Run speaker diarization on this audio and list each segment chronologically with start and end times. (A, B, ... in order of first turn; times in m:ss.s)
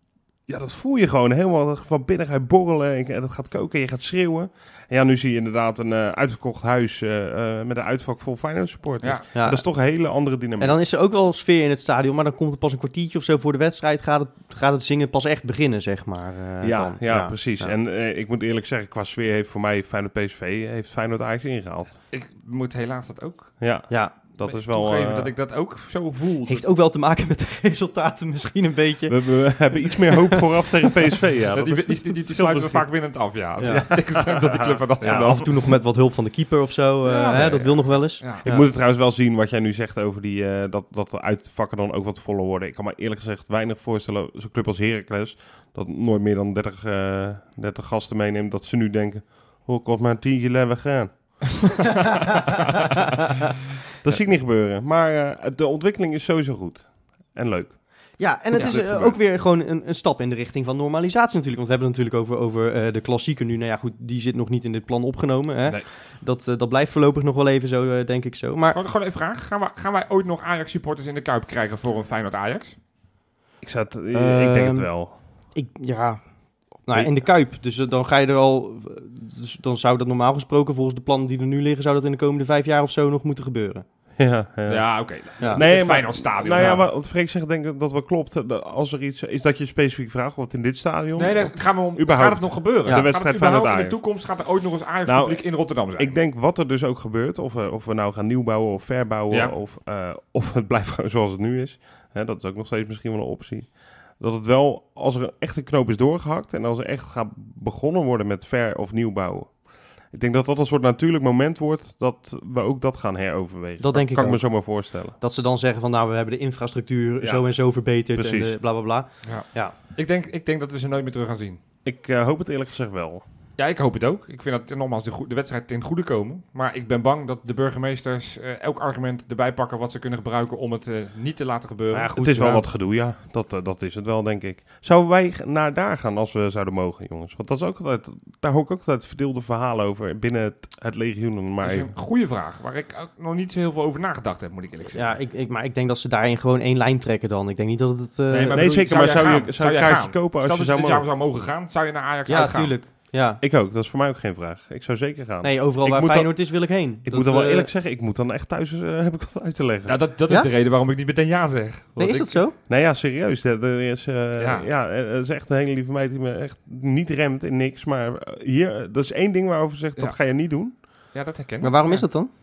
0:00.5-0:10.7 A
0:09.3-0:09.7 B
0:10.6-0:17.7 B
0:16.6-0:22.0 A
0:22.1-0:23.6 C
0:23.6-0:25.3 A
0:23.9-0:24.2 B
0:24.4-0:26.6 C
0:26.4-0:30.9 B
0:29.1-0:32.9 A
0:31.5-0:35.5 C
0:33.6-0:35.4 A
0:35.0-0:38.6 B
0:37.0-0:38.6 C
0:38.4-0:51.5 A
0:54.0-0:59.2 A
0:58.2-1:08.8 B
1:08.7-1:12.8 C
1:13.6-1:15.1 A
1:14.1-1:14.9 B
1:15.5-1:16.2 B
1:16.8-1:23.8 B
1:24.2-1:34.0 A
1:24.7-1:26.9 C
1:31.2-1:36.2 C
1:35.0-1:55.2 A
1:53.8-1:59.7 B
1:57.2-1:57.5 A
1:58.1-1:58.6 A
1:59.2-2:01.6 C
2:01.8-2:03.2 A
2:03.6-2:12.1 C
2:11.9-2:12.6 B
2:12.2-2:21.9 A
2:21.6-2:25.2 C
2:24.9-2:28.9 B
2:28.3-2:32.8 C
2:28.5-2:31.0 A
2:32.2-2:33.4 B
2:33.4-2:36.5 A
2:35.4-2:37.7 B
2:37.0-2:40.0 A
2:39.8-2:42.4 C
2:42.0-2:42.5 B
2:42.6-2:50.8 A
2:44.4-2:44.7 C
2:50.7-2:52.0 C
2:51.6-2:52.3 B